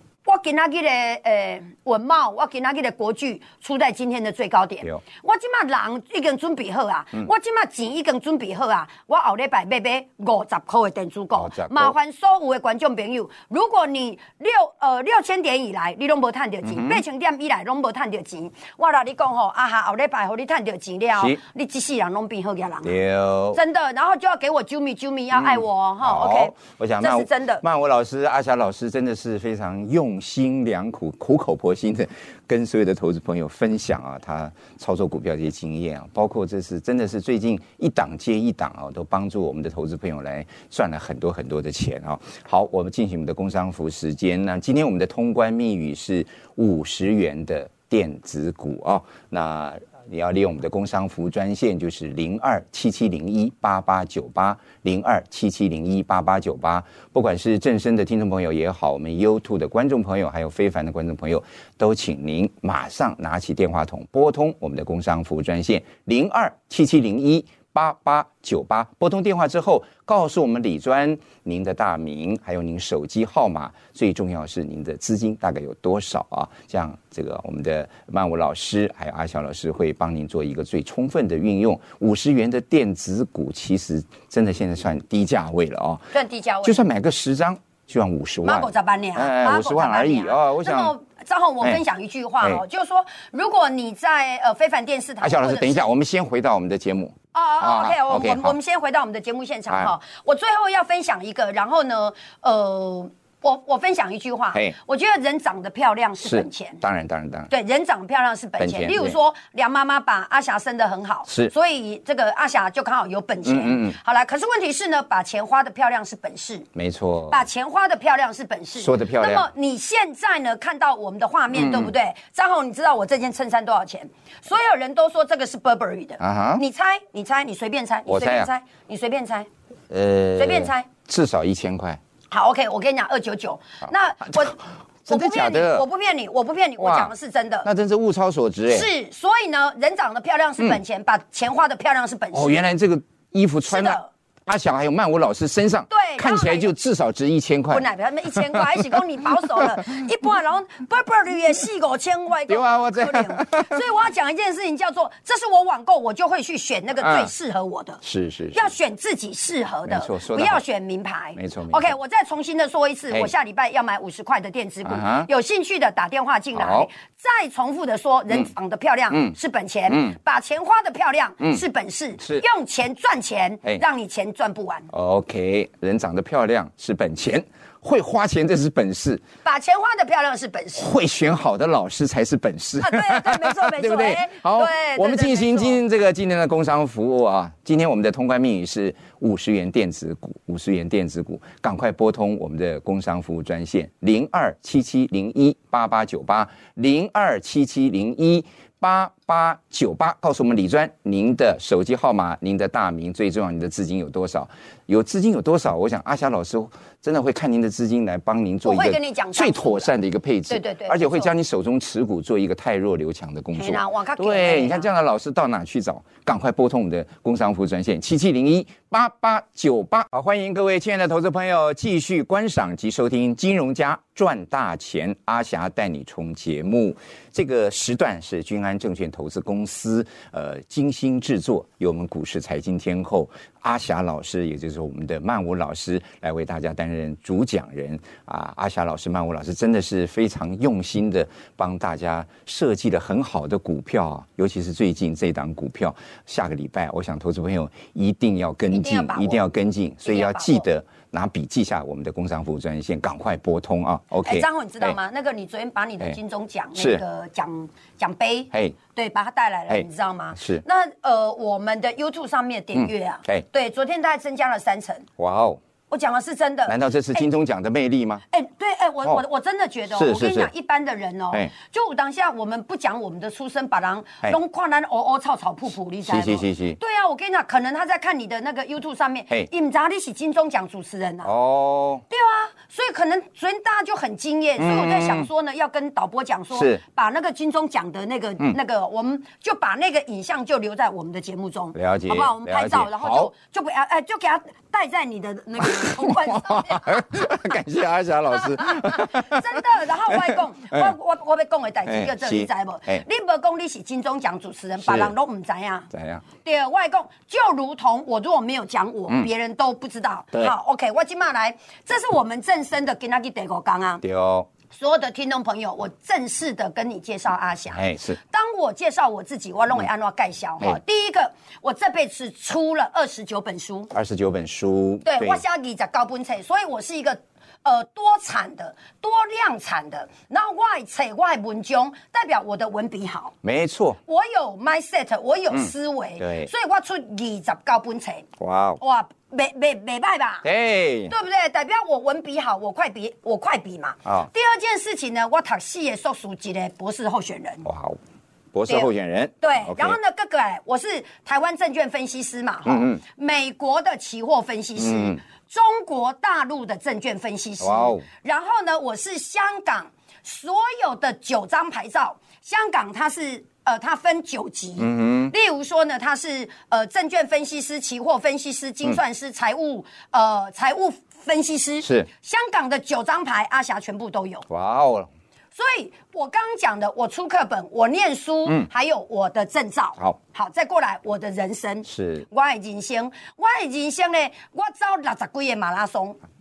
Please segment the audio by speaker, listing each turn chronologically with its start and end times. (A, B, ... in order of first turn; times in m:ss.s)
0:00.2-0:22.9 A
0:11.4-0:11.9 B
0:16.6-0:17.0 B
0:22.8-0:23.6 B
0:23.5-0:27.6 A
0:25.3-1:26.1 B
1:26.1-1:26.8 A
1:26.6-1:30.9 B
1:28.4-1:35.8 A
1:35.2-1:38.6 B
1:37.3-1:46.8 A
1:46.2-1:47.5 B
1:47.5-1:56.7 A
1:48.6-1:49.2 B
1:51.3-1:51.5 B
1:53.4-1:54.0 B
1:56.7-1:57.4 B
1:57.3-2:09.5 A
1:58.8-1:59.5 B
2:01.5-2:01.9 B
2:06.2-2:06.6 B
2:08.1-2:08.5 B
2:09.9-2:12.0 B
2:10.4-2:10.9 A
2:12.3-2:17.7 A
2:14.2-2:15.8 B
2:16.8-2:17.1 B
2:17.6-2:18.9 B
2:18.7-2:22.6 A
2:22.3-2:28.9 B
2:23.7-2:24.1 A
2:25.9-2:26.7 A
2:27.7-2:38.0 A
2:32.5-2:33.8 B
2:37.0-2:37.3 B
2:38.0-2:38.7 B
2:38.5-2:54.9 A
2:39.9-2:40.6 B
2:41.3-2:41.9 B
2:44.8-2:45.3 B
2:46.5-2:46.9 B
2:49.9-2:50.2 B
2:54.9-2:59.2 B
2:59.4-3:00.9 A
3:00.7-4:15.0 B
3:02.8-3:05.8 A
3:28.6-3:29.9 A
3:30.5-3:31.3 A
3:33.5-3:34.9 A
4:08.7-4:09.4 A
4:10.0-4:10.6 A
4:14.2-4:25.1 A
4:16.8-4:17.0 B
4:19.7-4:20.6 B
4:22.7-4:23.4 B
4:25.2-4:25.6 B
4:25.9-4:27.3 A
4:26.7-4:28.2 B
4:28.3-4:41.3 A
4:29.9-4:30.5 B
4:36.0-4:36.8 B
4:41.2-4:42.0 B
4:42.1-4:57.5 A
4:44.6-4:45.3 B
4:46.5-4:46.8 B
4:51.7-4:53.3 B
4:55.6-5:00.9 B
4:58.3-5:05.9 A
5:01.8-5:03.0 B
5:04.8-5:05.1 B
5:05.9-5:06.2 B
5:06.4-5:14.0 A
5:14.0-5:14.5 B
5:14.7-5:23.9 A
5:17.7-5:18.2 B
5:23.9-5:25.4 B
5:25.0-5:33.3 A
5:33.4-5:34.0 B
5:34.0-5:38.3 A
5:35.5-5:36.5 B
5:38.4-5:38.8 B
5:38.8-5:40.4 A
5:40.4-5:41.1 B
5:41.1-5:47.6 A
5:47.6-5:48.0 B
5:48.5-5:50.0 B
5:49.4-6:14.4 A
5:52.6-5:53.0 B
5:54.8-5:55.2 B
5:57.6-5:58.0 B
6:04.8-6:05.3 B
6:11.8-6:12.1 B
6:14.5-6:15.1 B
6:15.5-6:26.2 A
6:21.8-6:22.3 B